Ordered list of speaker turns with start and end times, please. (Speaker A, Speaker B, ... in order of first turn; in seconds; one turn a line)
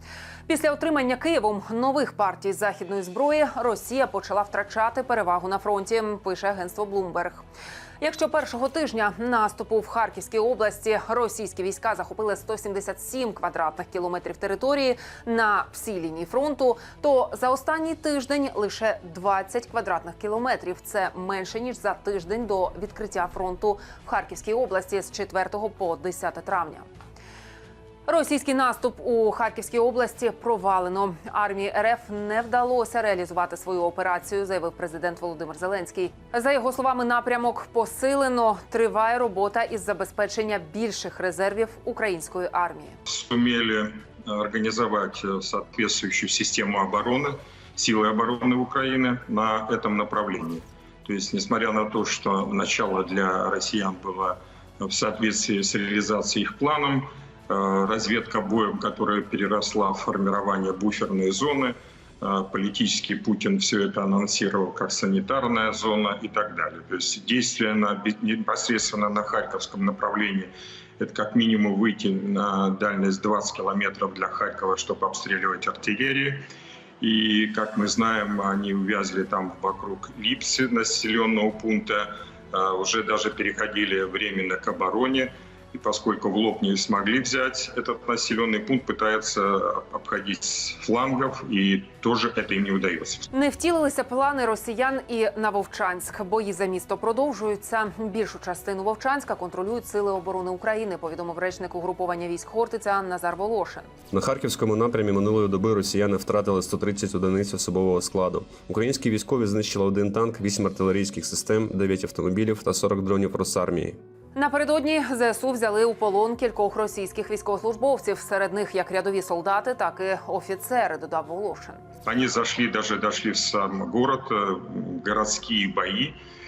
Speaker A: 0.5-7.4
Speaker A: 8.0-26.9
Speaker A: 28.1-43.0
Speaker B: 43.1-76.4
Speaker B: 77.0-93.3
Speaker A: 93.3-103.9
Speaker C: 104.1-114.0
Speaker A: 114.4-121.8
Speaker B: 122.0-126.2